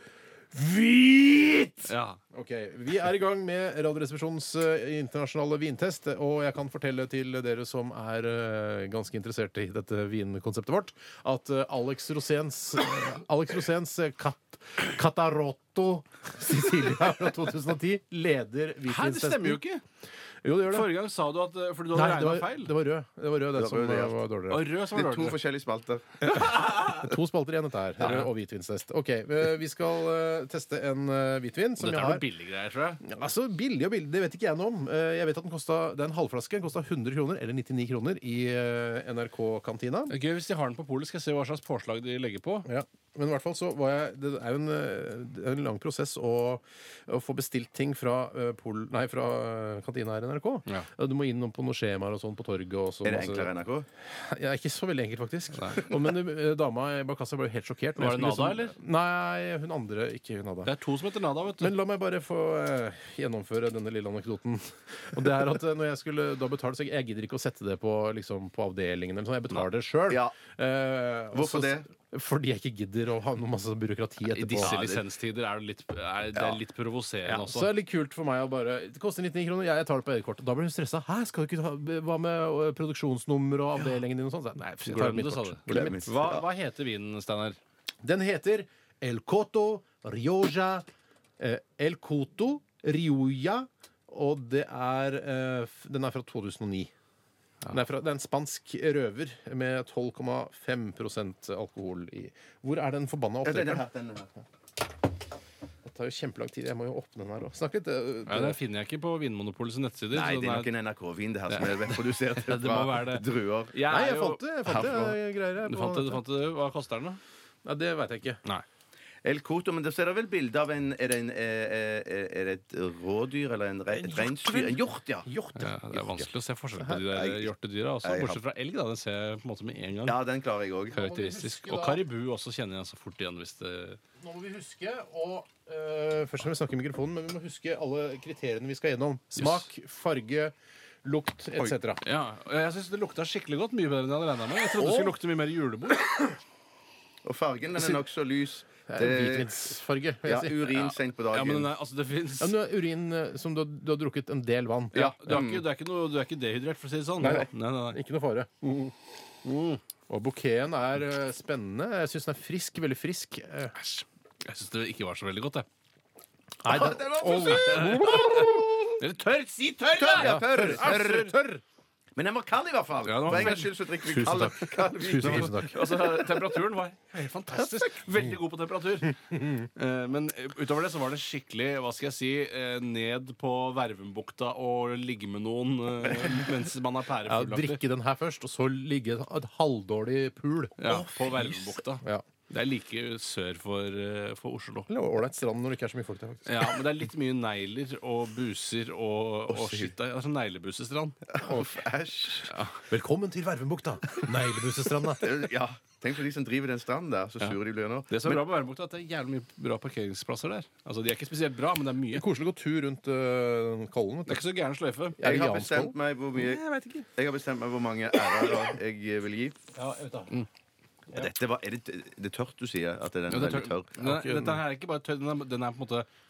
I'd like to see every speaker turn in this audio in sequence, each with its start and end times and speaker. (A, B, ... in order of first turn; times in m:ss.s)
0:00.5-0:19.6 A
0:01.8-0:02.2 B
0:18.8-0:19.8 B
0:20.4-0:20.9 A
0:20.6-0:22.7 B
0:21.9-0:24.6 A
0:23.5-0:24.2 C
0:24.5-0:25.4 B
0:24.9-0:26.0 C
0:26.2-0:32.2 A
0:26.4-0:27.0 B
0:28.0-0:28.3 B
0:31.8-0:33.0 B
0:33.0-0:40.1 A
0:40.1-0:42.6 B
0:42.6-0:53.5 A
0:53.0-0:53.9 C
0:54.1-1:00.7 A
0:55.6-0:55.8 B
0:58.0-0:58.7 B
1:00.6-1:01.7 B
1:01.6-1:15.0 A
1:10.1-1:10.3 C
1:11.3-1:11.9 C
1:14.3-1:17.7 B
1:14.6-1:14.9 C
1:17.2-1:26.1 A
1:24.8-1:27.6 B
1:25.7-1:26.4 C
1:28.0-1:30.8 A
1:31.4-1:36.9 A
1:37.7-1:43.8 A
1:43.4-1:44.3 C
1:45.8-1:48.6 A
1:48.3-1:50.7 B
1:50.1-1:53.8 C
1:51.5-1:54.6 B
1:53.8-1:56.2 A
1:54.6-1:55.2 C
1:55.6-1:57.2 B
1:57.6-1:58.4 A
1:59.2-2:05.3 C
2:03.9-2:05.7 A
2:05.6-2:10.2 B
2:05.9-2:06.3 C
2:06.9-2:07.5 C
2:08.0-2:08.4 C
2:10.0-2:11.0 C
2:10.9-2:12.0 A
2:10.9-2:14.0 B
2:14.2-2:22.0 A
2:19.4-2:19.6 B
2:22.0-2:26.3 B
2:24.8-2:25.2 C
2:27.2-2:31.7 C
2:28.9-2:30.6 A
2:30.7-2:32.6 B
2:32.4-2:35.0 A
2:34.9-2:38.0 B
2:34.9-2:35.6 C
2:37.2-2:38.9 A
2:39.4-2:39.8 B
2:40.1-2:43.8 A
2:43.8-2:45.6 B
2:46.6-2:48.8 A
2:46.6-2:48.9 C
2:47.5-2:51.2 B
2:49.9-2:51.3 C
2:50.1-2:51.6 A
2:52.1-2:56.0 C
2:53.0-2:53.7 B
2:53.3-2:55.8 A
2:55.2-3:07.8 B
3:07.2-3:11.1 A
3:10.8-3:14.9 B
3:10.9-3:11.6 C
3:14.9-3:16.7 A
3:16.4-3:21.4 B
3:19.5-3:19.9 C
3:21.3-3:22.5 C
3:21.4-3:21.7 A
3:22.5-3:22.8 B
3:22.9-3:25.4 A
3:25.2-3:28.4 C
3:28.1-3:32.2 B
3:32.1-3:34.5 A
3:34.3-3:35.2 B
3:35.2-3:35.9 A
3:35.2-3:36.6 C
3:36.4-3:37.1 B
3:37.2-3:39.6 C
3:39.7-3:40.4 A
3:41.1-3:44.0 C
3:43.3-3:46.1 B
3:44.0-3:44.6 A